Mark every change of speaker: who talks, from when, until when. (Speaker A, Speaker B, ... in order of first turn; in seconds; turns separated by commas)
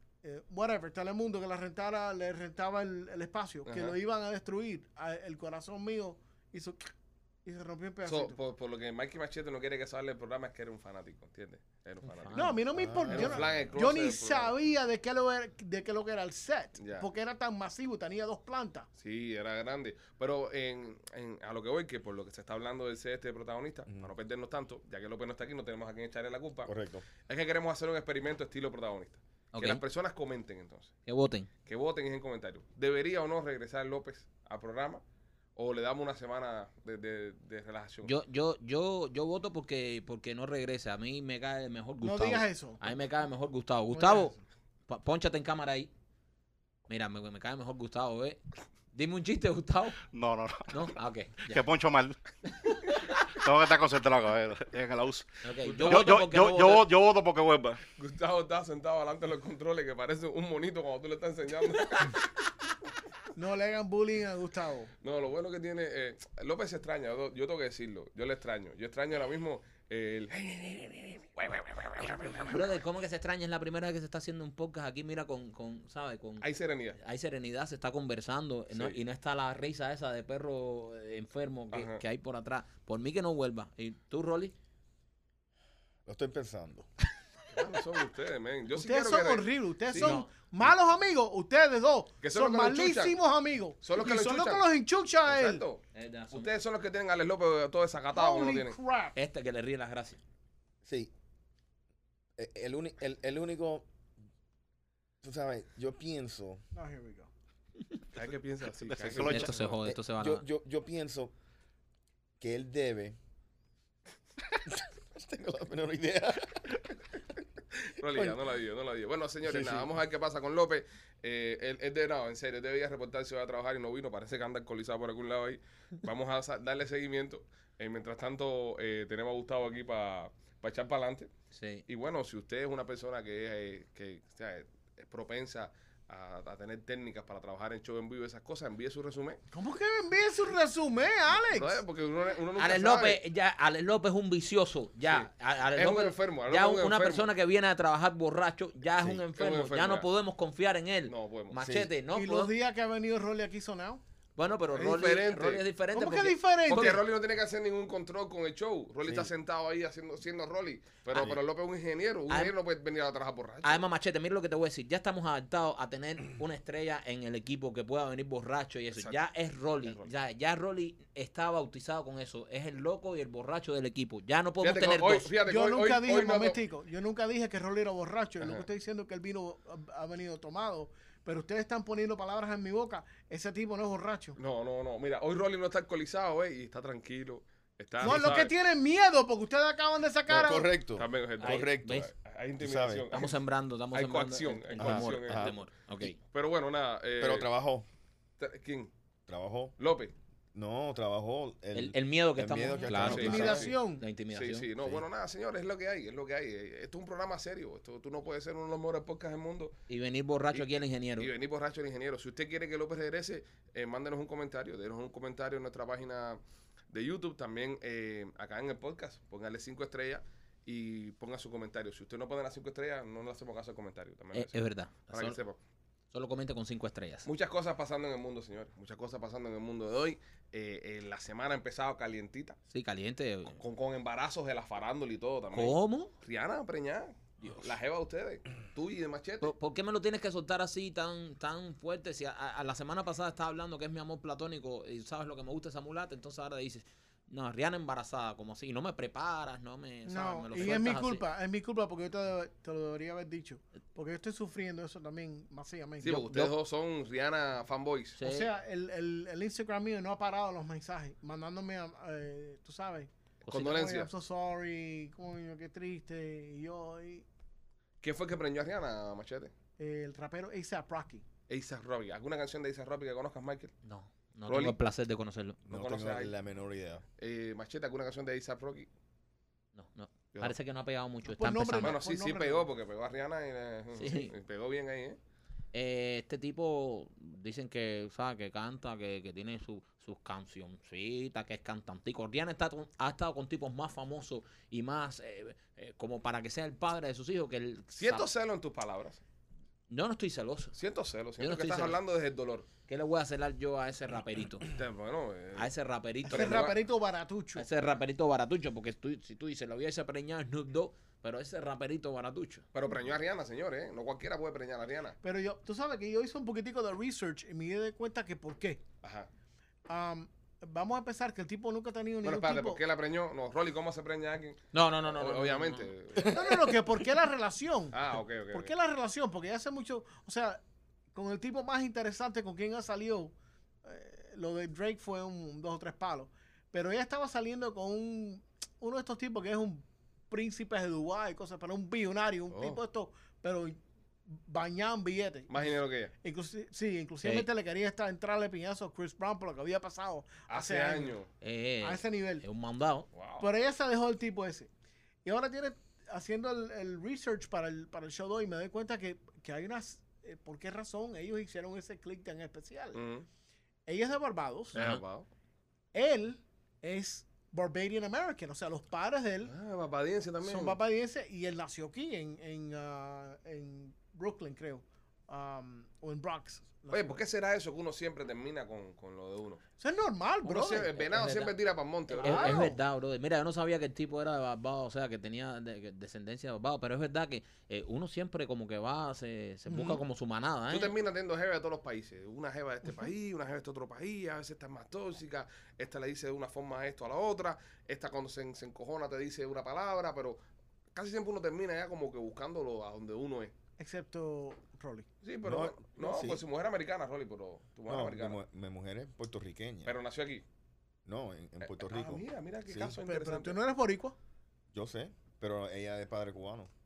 Speaker A: 0.2-6.9, Speaker B: 3.7-4.0, Speaker A: 7.5-8.4, Speaker B: 8.1-14.5, Speaker C: 12.0-13.7, Speaker A: 12.3-18.9, Speaker B: 16.8-17.1, Speaker B: 19.0-26.7, Speaker D: 26.6-27.1, Speaker B: 27.3-31.0, Speaker C: 29.5-29.8, Speaker C: 31.1-31.5, Speaker B: 31.7-35.0, Speaker B: 35.6-38.1, Speaker C: 38.0-44.4, Speaker A: 42.0-42.8, Speaker A: 43.9-44.4, Speaker C: 44.9-45.9, Speaker C: 46.9-48.4, Speaker C: 48.9-50.0, Speaker E: 50.1-50.9, Speaker C: 50.7-51.6, Speaker E: 51.5-52.2, Speaker C: 52.6-53.0, Speaker E: 53.4-57.8, Speaker C: 55.4-56.9, Speaker B: 55.7-56.1, Speaker B: 58.0-62.2, Speaker A: 63.4-64.9, Speaker B: 65.0-72.7, Speaker C: 72.3-76.5, Speaker B: 76.4-77.0, Speaker C: 77.0-84.5, Speaker B: 78.7-79.0, Speaker B: 81.7-82.0, Speaker D: 86.1-86.9, Speaker B: 87.5-90.7, Speaker A: 88.7-95.6, Speaker C: 90.0-90.3, Speaker B: 92.2-93.2, Speaker B: 93.8-94.7, Speaker B: 95.2-98.8, Speaker C: 96.0-96.5, Speaker A: 98.1-99.2, Speaker C: 99.2-100.2, Speaker D: 100.8-101.1, Speaker D: 102.4-103.9, Speaker D: 105.2-106.6, Speaker A: 106.7-107.3, Speaker B: 108.1-109.7, Speaker E: 108.8-109.6, Speaker C: 109.2-110.4, Speaker D: 109.8-111.3, Speaker D: 112.4-113.2, Speaker D: 114.7-116.8, Speaker B: 117.9-131.3, Speaker D: 119.5-119.9, Speaker C: 131.5-131.8, Speaker B: 131.9-139.4, Speaker A: 139.5-141.8, Speaker B: 141.5-143.2, Speaker C: 142.6-152.5, Speaker B: 145.1-147.3, Speaker B: 149.1-150.1, Speaker B: 151.1-151.6, Speaker D: 151.6-151.9, Speaker A: 152.1-154.0, Speaker C: 154.4-157.0, Speaker A: 154.8-155.2, Speaker B: 154.8-155.7, Speaker A: 155.9-157.0, Speaker B: 156.7-163.8, Speaker D: 159.1-159.3, Speaker C: 163.6-175.3, Speaker B: 168.9-169.2, Speaker B: 169.8-170.1, Speaker B: 174.6-176.6, Speaker A: 175.5-184.4, Speaker B: 178.4-178.7, Speaker B: 184.4-188.6, Speaker A: 188.0-190.7, Speaker D: 190.3-193.1, Speaker B: 190.4-193.4, Speaker C: 191.4-192.1, Speaker C: 193.1-196.2, Speaker B: 193.9-195.6, Speaker D: 194.8-195.6, Speaker B: 196.2-197.5, Speaker D: 197.2-197.9, Speaker B: 198.4-198.9, Speaker D: 199.3-199.8, Speaker B: 199.8-200.1, Speaker D: 200.5-203.7, Speaker C: 201.7-204.7, Speaker A: 202.9-204.0, Speaker B: 202.9-203.8, Speaker B: 204.3-209.8, Speaker C: 209.9-211.3, Speaker B: 211.2-216.4, Speaker B: 216.9-224.6, Speaker C: 224.3-225.4, Speaker B: 225.1-225.6, Speaker C: 226.1-227.3, Speaker B: 227.2-232.6, Speaker C: 232.7-233.6, Speaker B: 233.6-239.5, Speaker C: 235.5-236.1, Speaker C: 237.4-237.7, Speaker C: 239.4-251.2, Speaker A: 250.1-256.5, Speaker B: 256.0-258.2, Speaker C: 258.2-258.5, Speaker A: 258.2-267.2, Speaker B: 263.5-264.1, Speaker B: 268.0-269.5, Speaker A: 269.8-271.2, Speaker B: 271.5-273.7, Speaker C: 273.8-275.6, Speaker B: 274.5-274.8, Speaker D: 275.7-277.0, Speaker B: 275.7-276.3, Speaker B: 277.2-278.9, Speaker C: 279.8-282.0, Speaker A: 281.3-282.7, Speaker B: 281.8-285.2, Speaker C: 283.9-284.3, Speaker C: 285.7-298.3, Speaker B: 298.0-299.2, Speaker C: 299.9-300.8, Speaker B: 300.8-302.7, Speaker C: 301.4-302.0, Speaker C: 302.9-304.7, Speaker B: 304.7-305.7, Speaker C: 305.6-306.7, Speaker B: 306.3-306.8, Speaker A: 306.3-307.7, Speaker C: 307.6-312.6, Speaker B: 312.7-315.2, Speaker A: 315.2-318.8, Speaker B: 319.0-319.3, Speaker A: 319.9-322.8, Speaker B: 322.2-326.8, Speaker C: 324.7-325.9, Speaker D: 326.2-326.5, Speaker A: 326.2-328.0, Speaker B: 327.9-328.7, Speaker A: 328.5-330.6, Speaker A: 331.1-333.3, Speaker A: 333.9-343.8, Speaker B: 342.5-342.8, Speaker A: 344.3-345.6, Speaker B: 345.5-346.1, Speaker A: 346.2-351.2, Speaker B: 350.5-351.3, Speaker C: 351.4-353.1, Speaker A: 351.8-352.5, Speaker B: 353.1-353.5, Speaker A: 353.4-354.7, Speaker A: 355.2-363.0, Speaker B: 362.9-363.3, Speaker A: 363.9-364.8, Speaker C: 364.7-365.0, Speaker B: 364.8-365.3, Speaker A: 365.9-369.5, Speaker B: 369.4-370.8, Speaker A: 370.4-377.2, Speaker B: 376.9-379.6, Speaker A: 379.8-380.9, Speaker B: 380.4-382.7, Speaker C: 380.7-381.6, Speaker A: 382.1-382.8, Speaker C: 382.2-390.9, Speaker A: 389.7-390.0, Speaker B: 390.7-400.4, Speaker B: 400.9-403.5, Speaker A: 403.8-405.1, Speaker B: 405.2-408.4, Speaker D: 405.4-406.4, Speaker D: 407.9-409.9, Speaker B: 409.9-410.4, Speaker D: 411.1-413.0, Speaker B: 411.6-413.6, Speaker A: 411.9-412.2, Speaker A: 413.0-414.2, Speaker D: 414.7-416.7